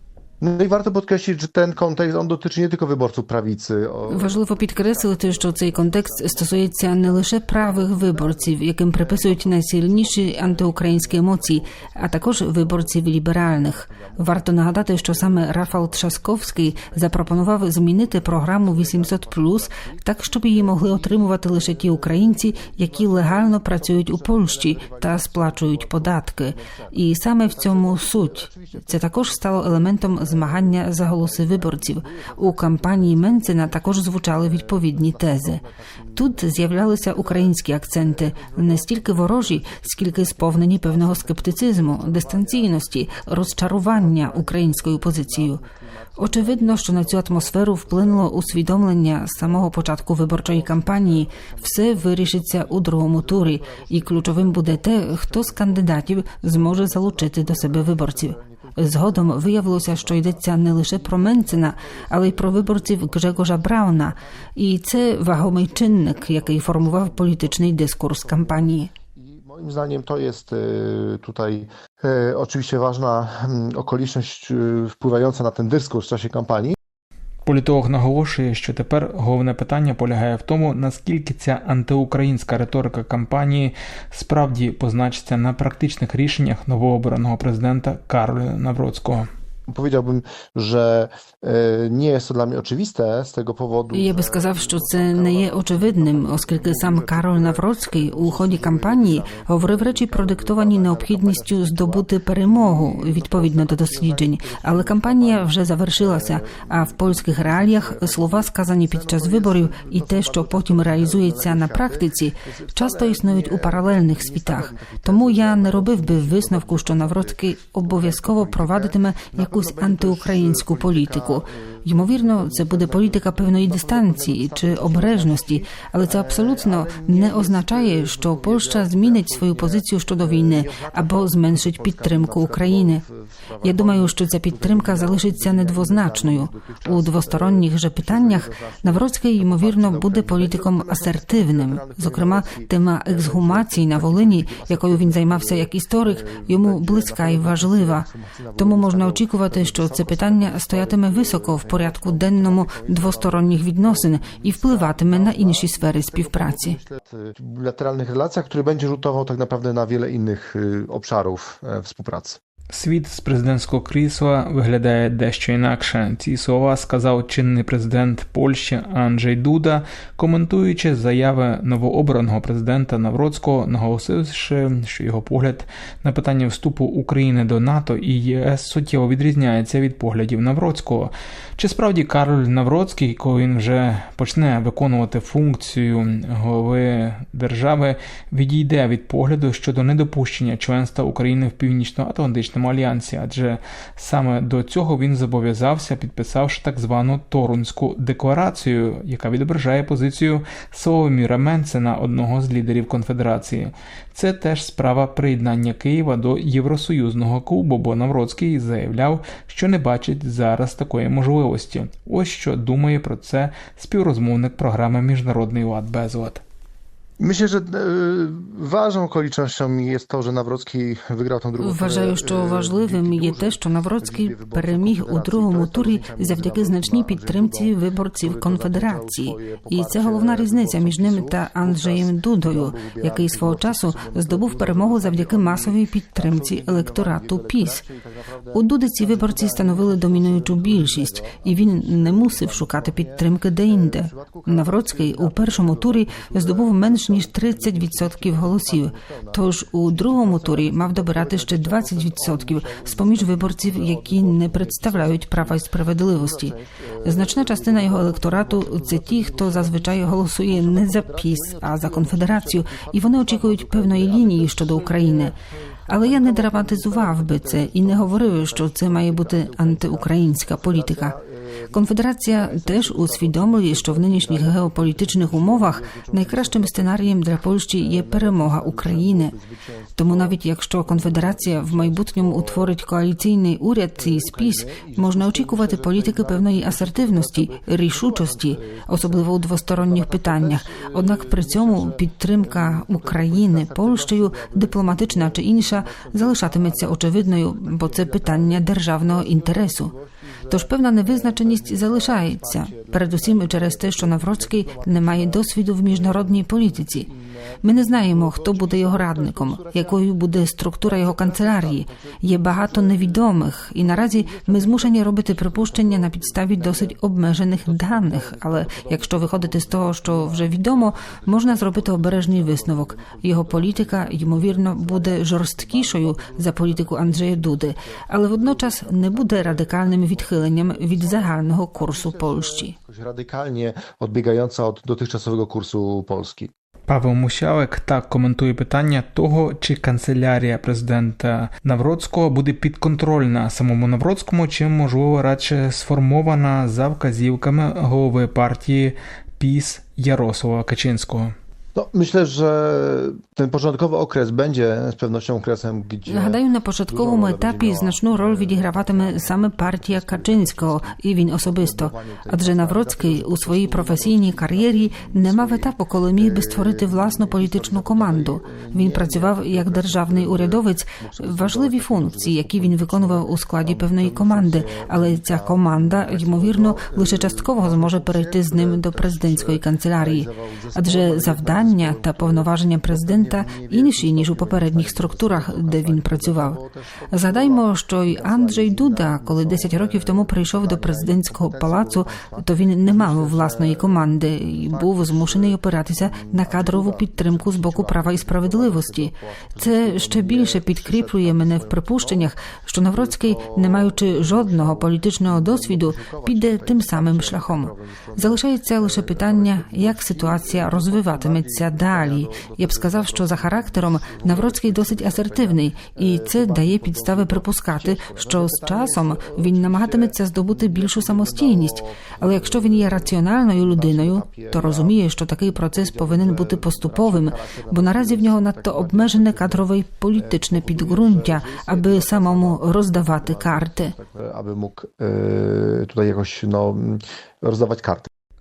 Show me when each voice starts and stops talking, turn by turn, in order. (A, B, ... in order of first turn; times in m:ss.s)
0:00.4-1:04.2 A
0:04.1-0:35.6 B
0:36.2-0:45.6 B
0:46.2-1:08.9 B
1:04.9-1:16.8 A
1:17.4-1:29.3 C
1:29.7-2:42.4 A
1:33.9-2:13.0 B
2:13.6-2:28.1 B
2:28.6-2:36.8 B
2:42.7-3:36.4 C
3:37.2-4:31.8 A
3:41.6-3:57.8 B
3:58.5-4:25.3 B
4:25.9-4:31.2 B
4:31.7-4:39.3 B
4:32.3-4:42.8 A
4:40.0-4:59.9 B
4:44.0-5:10.1 A
5:00.5-5:07.1 B
5:07.6-5:32.8 B
5:10.8-5:17.0 A
5:17.6-5:36.5 A
5:36.9-5:51.3 C
5:51.8-6:42.3 A
5:56.1-6:26.6 B
6:27.1-7:14.0 B
6:42.9-7:05.0 A
7:05.7-7:18.1 A